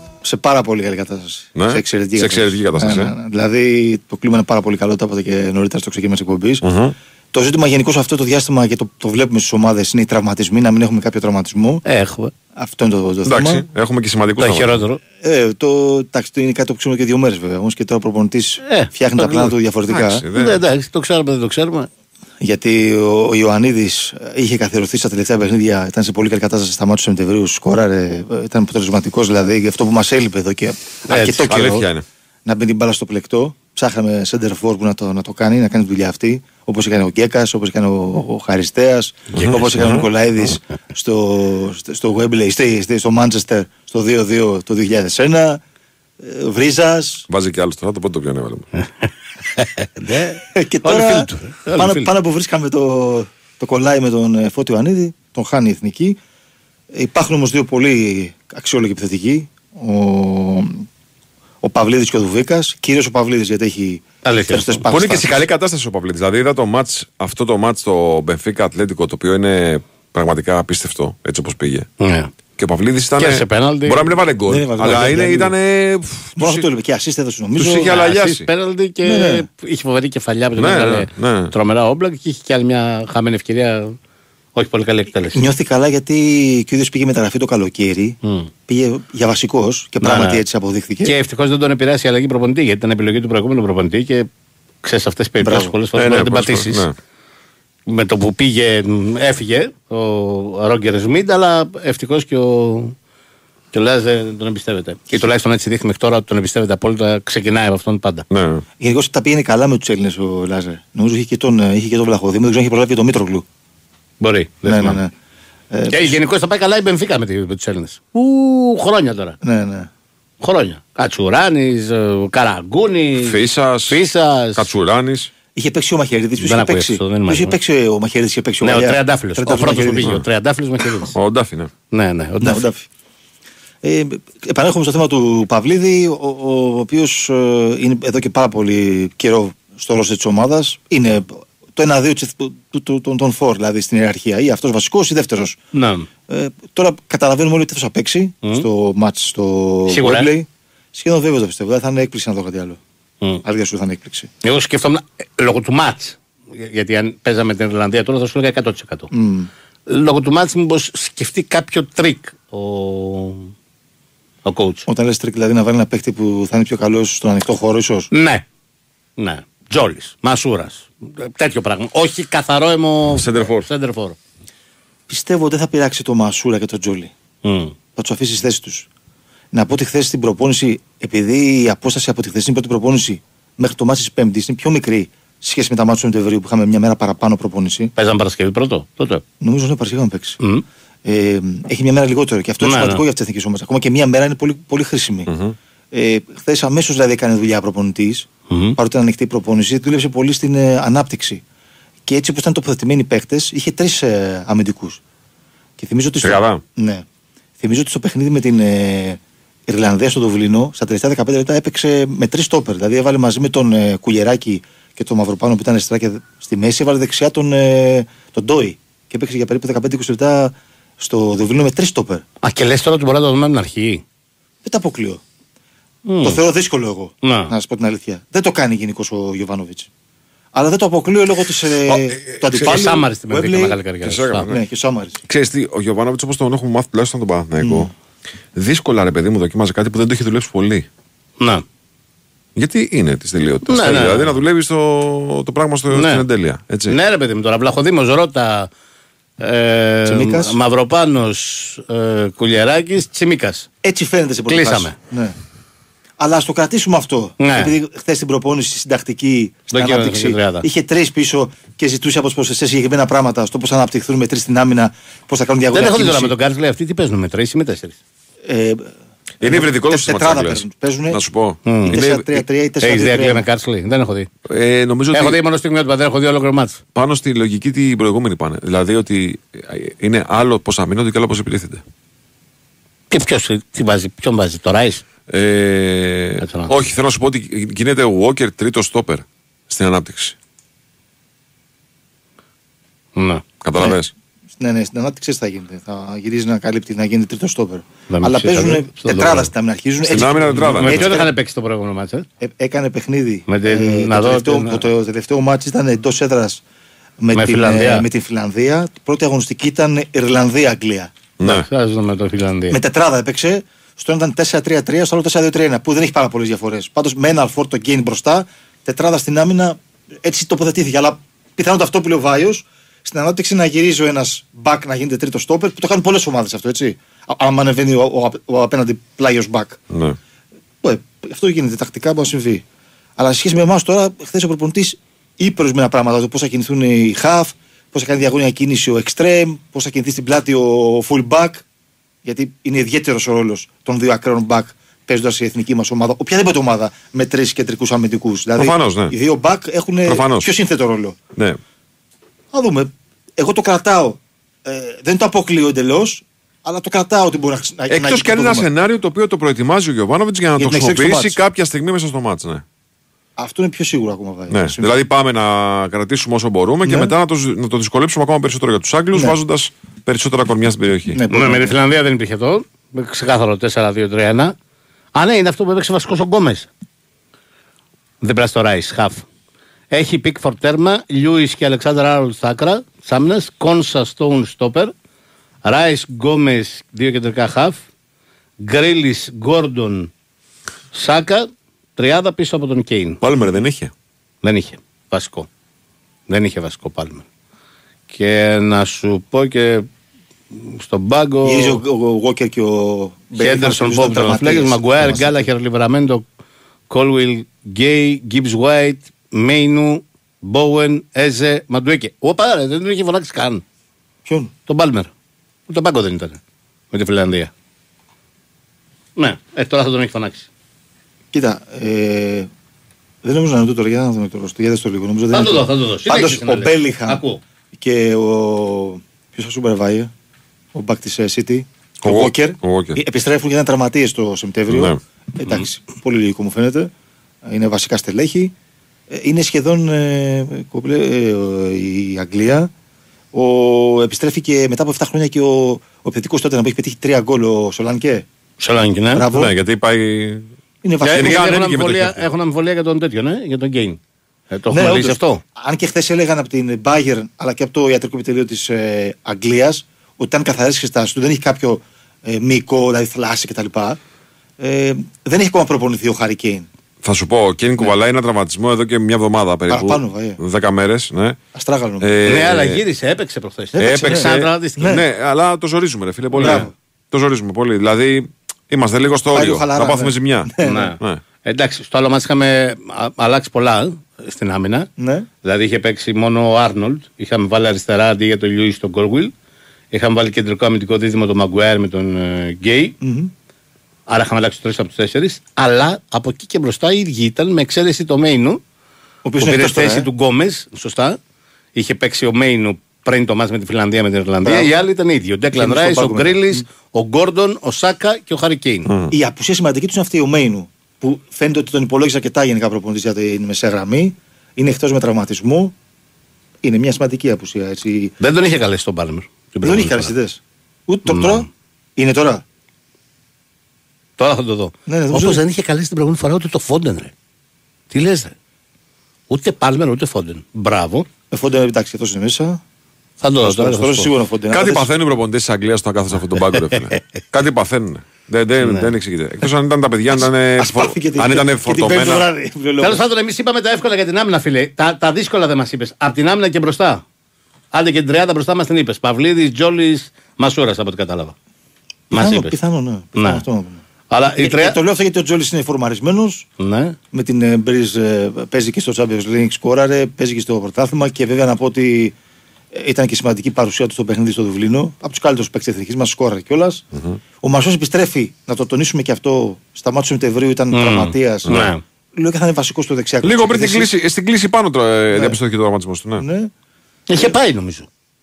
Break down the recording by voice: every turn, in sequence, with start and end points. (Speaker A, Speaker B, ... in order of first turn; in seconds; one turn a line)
Speaker A: 0.2-6.7
Speaker B: 1.6-3.1
Speaker B: 6.6-7.0
Speaker A: 7.3-11.8
Speaker C: 11.8-12.3
Speaker A: 12.6-13.6
Speaker B: 13.2-14.8
Speaker C: 14.4-15.0
Speaker A: 15.2-20.2
Speaker C: 18.6-19.5
Speaker B: 19.9-20.6
Speaker C: 20.4-21.9
Speaker A: 22.4-31.8
Speaker C: 31.1-31.9
Speaker B: 31.4-32.0
Speaker A: 32.5-45.6
Speaker B: 39.3-40.1
Speaker A: 46.2-47.3
Speaker B: 47.3-48.7
Speaker C: 49.0-52.1
Speaker A: 50.5-56.2
Speaker A: 56.9-60.9
Speaker A: 61.6-65.4
Speaker C: 64.2-64.8
Speaker B: 64.9-71.9
Speaker C: 72.0-72.3
Speaker B: 72.6-76.7
Speaker C: 73.2-74.2
Speaker A: 74.5-75.5
Speaker A: 76.4-77.9
Speaker B: 77.6-78.5
Speaker C: 77.9-84.0
Speaker A: 79.0-79.5
Speaker B: 80.6-81.5
Speaker C: 84.6-85.5
Speaker A: 85.3-91.2
Speaker C: 88.2-88.5
Speaker C: 90.0-90.4
Speaker C: 91.0-94.3
Speaker C: 94.8-96.9
Speaker A: 95.4-95.8
Speaker B: 95.9-97.0
Speaker C: 97.9-103.0
Speaker C: 103.7-108.2
Speaker B: 108.3-108.6
Speaker A: 108.8-113.5
Speaker C: 114.2-115.0
Speaker A: 114.7-115.1
Speaker A: 115.7-116.2
Speaker C: 115.9-119.4
Speaker A: 119.4-119.9
Speaker C: 120.4-124.7
Speaker B: 123.2-124.0
Speaker B: 124.5-125.3
Speaker A: 125.5-130.2
Speaker C: 126.4-127.6
Speaker C: 128.6-131.2
Speaker B: 131.1-131.7
Speaker C: 131.9-132.6
Speaker A: 132.4-132.9
Speaker A: 133.8-145.6
Speaker C: 145.7-146.1
Speaker A: 146.3-152.8
Speaker C: 149.9-150.3
Speaker A: 153.4-154.3
Speaker C: 154.4-159.1
Speaker A: 159.1-159.5
Speaker C: 159.9-163.5
Speaker C: 164.4-164.9
Speaker A: 164.9-168.1
Speaker C: 168.1-168.4
Speaker C: 169.2-174.2
Speaker B: 173.1-173.7
Speaker A: 175.1-177.1
Speaker C: 177.4-177.8
Speaker A: 178.0-178.9
Speaker A: 179.5-187.9
Speaker C: 188.0-189.2
Speaker A: 189.4-190.4
Speaker A: 191.1-195.3
Speaker C: 192.6-193.0
Speaker B: 195.3-195.6
Speaker A: 195.9-201.4
Speaker C: 198.5-198.8
Speaker A: 202.1-205.0
Speaker A: 205.8-207.1
Speaker B: 206.2-206.6
Speaker A: 207.6-222.2
Speaker C: 222.4-224.0
Speaker A: 224.6-225.2
Speaker C: 226.1-226.4
Speaker A: 226.2-229.9
Speaker C: 227.2-227.5
Speaker A: 230.5-233.8
Speaker C: 231.9-234.5
Speaker B: 234.0-234.6
Speaker A: 234.5-235.2
Speaker B: 235.2-237.9
Speaker A: 237.6-237.9
Speaker B: 238.6-240.9
Speaker C: 241.4-241.7
Speaker B: 242.6-247.0
Speaker C: 243.7-244.4
Speaker C: 245.9-246.2
Speaker C: 246.9-248.7
Speaker C: 249.4-253.7
Speaker A: 250.1-250.6
Speaker A: 253.8-255.3
Speaker C: 254.5-255.0
Speaker A: 256.2-266.3
Speaker C: 257.4-257.8
Speaker C: 259.7-260.7
Speaker C: 265.7-268.0
Speaker A: 268.5-271.2
Speaker B: 269.4-272.4
Speaker C: 271.7-272.0
Speaker A: 271.9-273.5
Speaker C: 272.8-274.3
Speaker B: 274.5-275.4
Speaker C: 275.1-276.8
Speaker B: 276.9-281.8
Speaker C: 283.1-285.0
Speaker B: 285.3-290.4
Speaker C: 286.4-286.9
Speaker C: 293.2-293.4
Speaker B: 293.6-294.1
Speaker A: 294.6-301.3
Speaker C: 298.1-299.5
Speaker B: 300.1-301.2
Speaker C: 300.6-302.3
Speaker A: 302.4-306.6
Speaker C: 303.5-304.9
Speaker A: 307.2-311.1
Speaker C: 307.3-308.1
Speaker B: 311.4-311.7
Speaker C: 311.4-312.8
Speaker A: 312.7-329.8
Speaker B: 329.9-330.2
Speaker A: 330.8-332.6
Speaker A: 333.2-341.6
Speaker A: 342.2-351.2
Speaker B: 348.6-349.1
Speaker B: 350.1-350.5
Speaker A: 352.5-358.7
Speaker B: 357.9-362.6
Speaker A: 360.6-361.4
Speaker A: 363.4-365.0
Speaker B: 364.5-371.2
Speaker A: 366.8-367.1
Speaker A: 371.1-371.8
Speaker C: 371.3-374.6
Speaker C: 375.1-376.7
Speaker C: 378.2-379.2
Speaker C: 379.9-384.9
Speaker C: 385.6-387.8
Speaker C: 388.6-390.1
Speaker C: 390.9-393.2
Speaker B: 393.2-393.9
Speaker C: 394.4-395.5
Speaker C: 396.3-397.2
Speaker C: 398.1-399.9
Speaker C: 400.5-401.8
Speaker A: 401.4-405.4
Speaker C: 403.4-406.2
Speaker C: 406.9-413.6
Speaker A: 414.2-414.5
Speaker C: 414.7-415.1
Speaker C: 415.7-416.4
Speaker C: 416.9-417.5
Speaker C: 419.2-420.5
Speaker A: 421.3-422.5
Speaker A: 423.2-430.1
Speaker C: 425.3-427.4
Speaker A: 430.7-436.9
Speaker B: 432.0-433.0
Speaker B: 434.7-435.0
Speaker A: 437.5-438.5
Speaker A: 439.1-442.7
Speaker A: 443.3-448.3
Speaker C: 448.6-449.3
Speaker A: 449.1-449.5
Speaker B: 449.3-450.5
Speaker A: 450.8-451.5
Speaker C: 451.0-454.0
Speaker B: 451.1-452.3
Speaker C: 454.5-455.4
Speaker A: 454.7-464.0
Speaker A: 464.6-466.7
Speaker B: 467.0-471.4
Speaker A: 469.7-470.4
Speaker A: 471.5-472.1
Speaker B: 472.0-472.8
Speaker C: 472.2-474.9
Speaker A: 473.8-475.0
Speaker B: 473.8-481.2
Speaker C: 476.4-476.7
Speaker A: 476.4-476.7
Speaker A: 479.3-480.9
Speaker C: 480.6-484.9
Speaker A: 485.0-485.3
Speaker C: 485.4-489.3
Speaker C: 489.9-493.0
Speaker A: 493.0-493.3
Speaker C: 494.1-498.6
Speaker A: 499.2-500.1
Speaker C: 499.4-501.2
Speaker C: 501.8-508.9
Speaker A: 504.4-504.8
Speaker A: 505.5-506.6
Speaker B: 508.9-509.1
Speaker A: 509.1-515.7
Speaker A: 516.6-518.1
Speaker C: 518.2-520.1
Speaker A: 519.6-522.4
Speaker C: 521.1-521.5
Speaker C: 524.2-527.1
Speaker A: 524.9-525.4
Speaker C: 527.9-528.3
Speaker C: 529.3-531.1
Speaker A: 531.3-532.6
Speaker C: 533.2-534.1
Speaker A: 533.4-535.0
Speaker B: 534.5-542.3
Speaker C: 538.6-538.9
Speaker A: 540.1-543.1
Speaker C: 542.8-547.0
Speaker C: 547.7-551.3
Speaker C: 552.1-552.6
Speaker A: 552.1-553.8
Speaker C: 553.2-553.4
Speaker C: 554.1-554.8
Speaker A: 554.4-556.5
Speaker C: 556.6-557.0
Speaker A: 557.1-562.1
Speaker A: 562.7-566.8
Speaker A: 567.4-573.9
Speaker C: 570.7-571.8
Speaker B: 571.5-571.7
Speaker B: 573.2-576.2
Speaker A: 575.1-575.4
Speaker A: 576.2-576.5
Speaker C: 577.1-577.9